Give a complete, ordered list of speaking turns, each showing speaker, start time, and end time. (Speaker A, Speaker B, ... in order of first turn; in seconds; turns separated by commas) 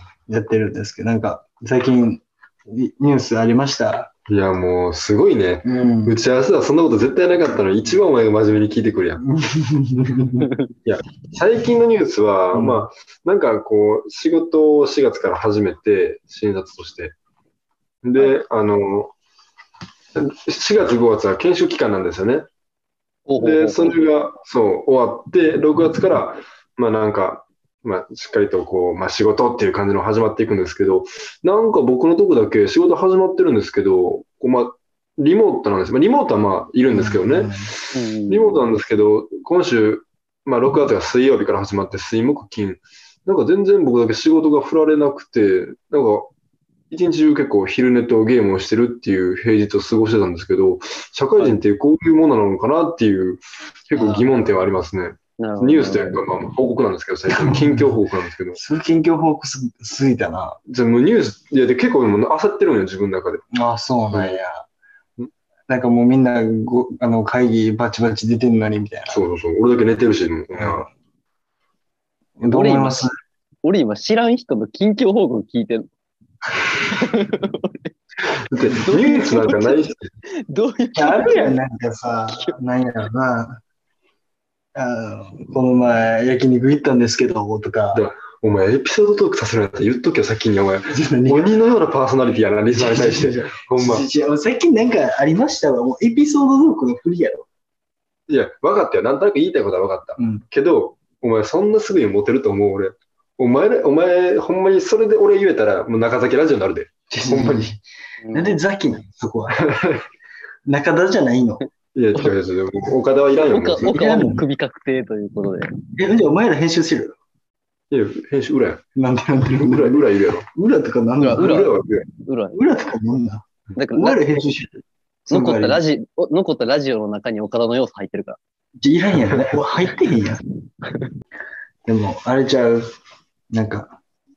Speaker A: 0.3-4.1, Speaker B: 4.3-9.2, Speaker A: 5.6-6.2, Speaker A: 9.2-10.5, Speaker B: 10.8-17.1, Speaker A: 12.5-12.8, Speaker B: 18.0-19.1, Speaker B: 20.1-22.4, Speaker C: 23.3-24.0, Speaker B: 23.4-46.3, Speaker A: 36.9-37.7, Speaker C: 37.9-38.6, Speaker B: 46.9-58.6, Speaker C: 55.4-56.2, Speaker A: 57.3-58.0, Speaker A: 58.5-60.6, Speaker B: 60.7-63.4, Speaker A: 63.5-64.6, Speaker B: 64.1-64.4, Speaker A: 65.7-69.2, Speaker B: 69.1-70.9, Speaker A: 70.5-70.9, Speaker A: 72.4-73.1, Speaker C: 72.4-73.1, Speaker C: 73.6-75.9, Speaker C: 76.7-77.9, Speaker B: 78.5-80.1, Speaker C: 78.7-79.8, Speaker C: 80.5-81.6, Speaker A: 81.0-83.6, Speaker C: 82.3-82.6, Speaker A: 84.7-88.0, Speaker B: 87.9-94.0, Speaker A: 90.9-91.5, Speaker A: 92.7-97.5, Speaker B: 98.3-107.7, Speaker A: 100.2-100.4, Speaker A: 107.1-107.8, Speaker C: 108.2-108.6, Speaker A: 108.3-109.7, Speaker B: 109.5-110.0, Speaker A: 110.6-111.6, Speaker B: 111.9-113.9, Speaker C: 113.5-115.7, Speaker A: 113.8-114.4, Speaker A: 116.0-117.2, Speaker B: 117.9-118.8, Speaker A: 119.0-121.7, Speaker B: 119.5-120.5, Speaker C: 121.2-122.6, Speaker B: 121.4-122.0, Speaker A: 122.5-125.8, Speaker C: 123.8-124.3, Speaker C: 125.3-128.4, Speaker A: 128.8-130.4, Speaker A: 131.8-132.9, Speaker A: 133.5-134.0